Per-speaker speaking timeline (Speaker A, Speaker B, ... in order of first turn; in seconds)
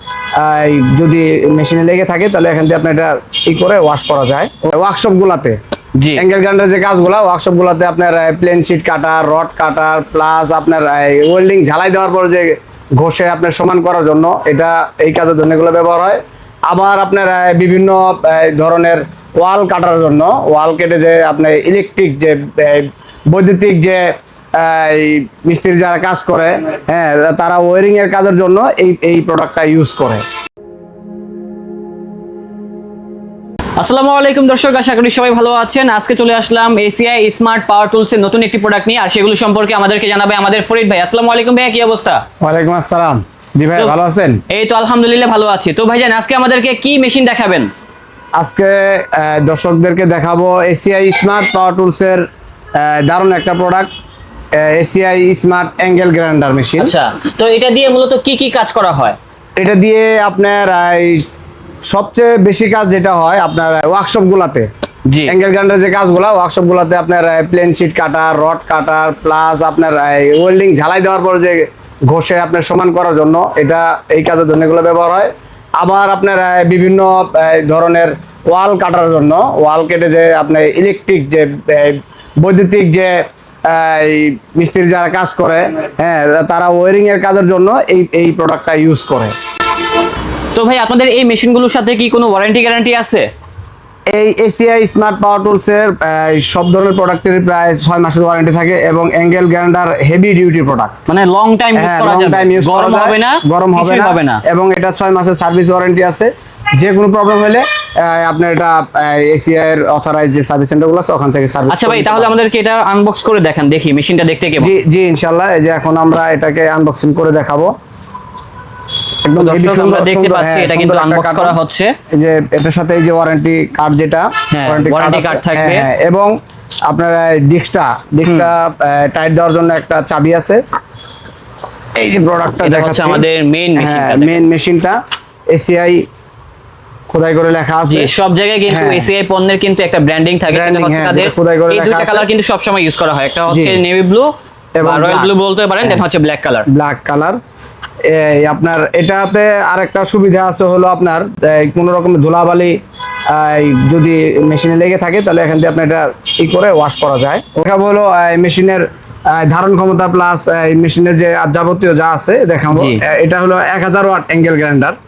Speaker A: 0.4-5.6, 6.2-30.2, 42.4-44.4, 48.4-53.9, 54.5-56.9, 59.6-61.3, 61.9-64.7, 65.3-89.3, 94.1-101.0, 101.8-112.3, 114.6-117.7, 119.2-121.6, 122.1-126.3, 126.9-130.6, 132.0-133.2, 133.8-135.0, 135.5-136.1, 137.1-138.1, 138.7-139.1, 140.5-142.3, 143.5-143.8, 144.8-145.3, 146.7-147.4, 148.1-152.8, 153.3-165.0
Speaker B: 6.0-6.2, 33.8-42.2, 44.5-47.7, 56.8-59.2, 65.1-65.3, 90.5-93.3, 101.1-104.4, 111.7-114.7, 119.4-122.0, 124.5-125.9, 128.2-128.5, 132.6-134.4, 137.9-146.7, 162.7-163.0